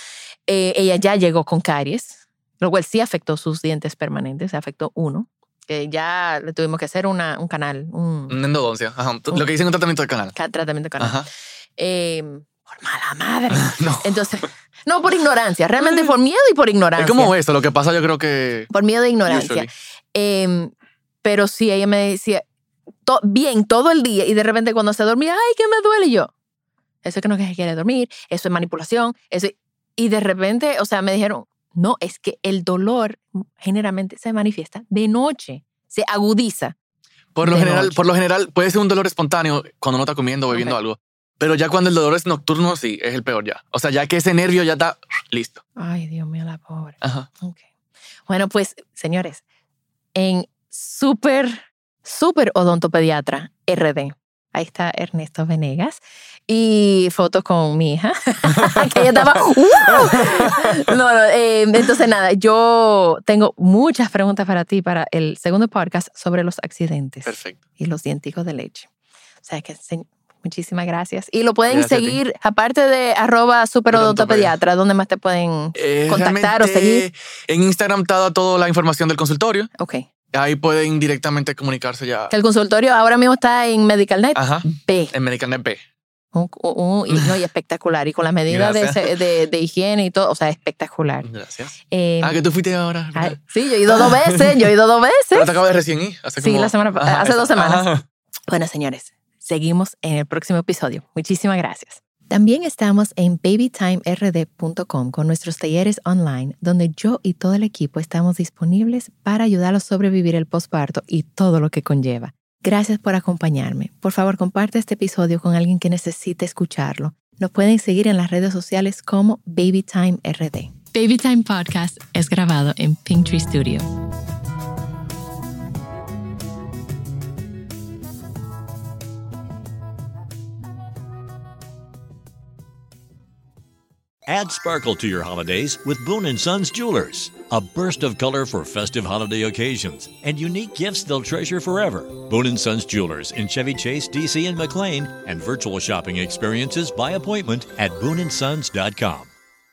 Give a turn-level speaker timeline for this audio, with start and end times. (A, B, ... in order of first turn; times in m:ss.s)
0:00.4-0:08.4 A
0:08.3-0:10.3 B
0:10.3-0:11.2 A
0:11.0-0:11.3 B
0:11.8-0:17.3 A
0:13.5-0:14.5 B
0:17.0-0:18.7 B
0:18.7-0:22.4 A
0:19.2-0:19.7 B
0:23.0-0:26.3 A
0:27.0-0:36.7 A
0:37.3-0:45.6 B
0:37.4-0:38.0 A
0:40.5-0:40.8 A
0:45.8-0:47.6 A
0:47.0-0:47.3 B
0:48.2-0:49.4 A
0:50.1-1:08.9 A
1:07.2-1:07.6 B
1:09.4-1:17.0 A
1:11.7-1:12.2 B
1:13.9-1:14.5 B
1:15.7-1:19.7 B
1:19.7-1:20.1 A
1:20.3-1:22.3 B
1:22.3-1:25.1 A
1:24.4-1:25.8 B
1:26.3-1:31.3 A
1:28.5-1:29.2 B
1:31.2-1:34.7 B
1:31.9-1:32.4 A
1:33.1-1:35.6 A
1:35.3-1:38.0 B
1:36.4-1:37.9 A
1:38.5-2:03.8 A
2:14.3-2:29.3 C